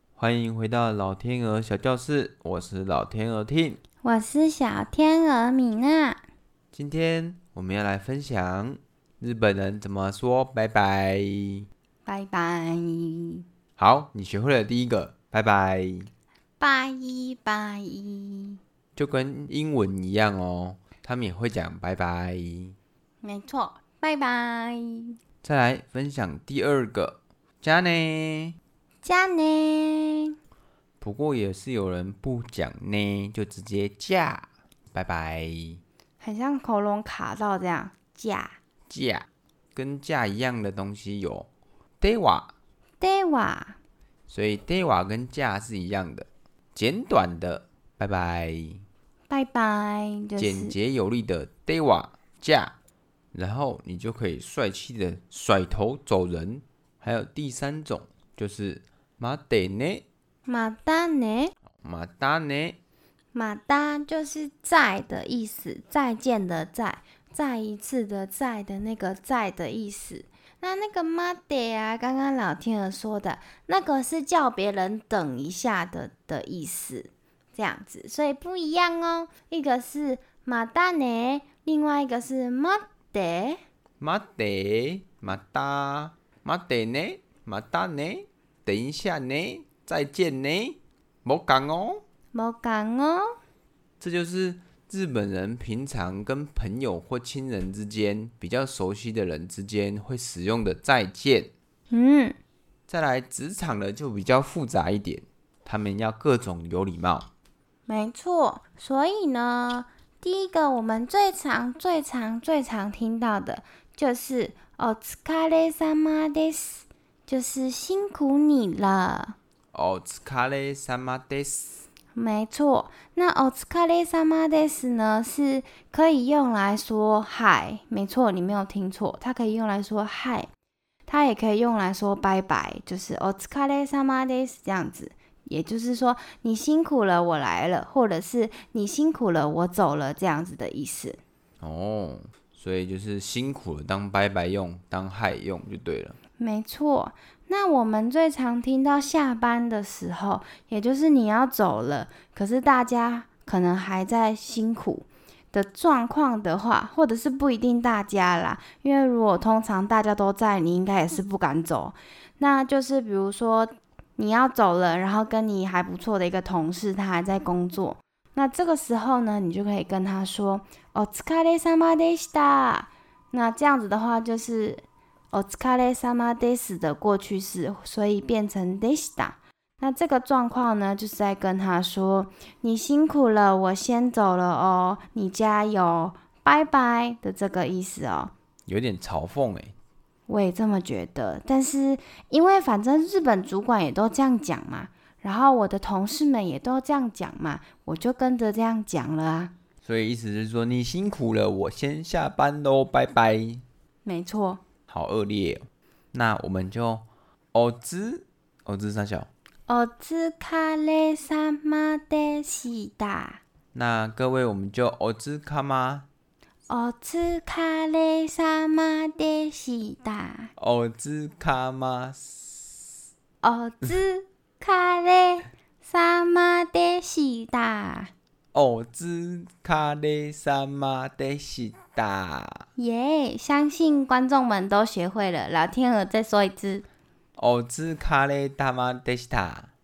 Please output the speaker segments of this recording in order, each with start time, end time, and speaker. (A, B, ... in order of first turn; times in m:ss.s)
0:00.2-0:03.8 A
0:04.0-0:06.2 B
0:06.7-0:11.7 A
0:12.0-0:13.4 B
0:13.8-0:16.1 A
0:16.6-0:18.6 B
0:19.0-0:22.8 A
0:23.2-0:25.2 B
0:25.4-0:28.6 A
0:29.0-0:30.3 B
0:31.0-0:35.8 A
0:36.2-0:38.6 B
0:38.9-0:41.5 A
0:42.0-0:42.5 A
0:43.0-0:43.8 B
0:44.3-0:48.8 A
0:49.3-0:50.8 B
0:50.4-0:52.7 A
0:53.3-1:00.0 A
1:00.4-1:01.5 B
1:01.8-1:02.8 A
1:03.3-1:23.6 B
1:24.0-1:32.0 A
1:32.3-1:33.4 B
1:34.0-1:41.5 A
1:41.9-1:42.4 B
1:42.9-1:47.3 A
1:47.9-1:59.4 B
1:59.7-2:01.8 A
2:02.1-2:10.5 B
2:11.1-2:21.2 B
2:21.6-2:26.2 A
2:26.4-3:08.3 B
3:08.7-3:09.7 A
3:10.3-3:19.5 B
3:19.8-3:23.6 A
3:24.0-3:24.6 B
3:24.9-3:29.3 A
3:29.7-3:33.4 B
3:33.7-3:36.0 A
3:36.7-3:40.5 B
3:40.6-3:42.7 A
3:43.4-3:48.1 B
3:48.5-3:52.6 A
3:52.8-3:56.9 B
3:57.4-3:59.7 A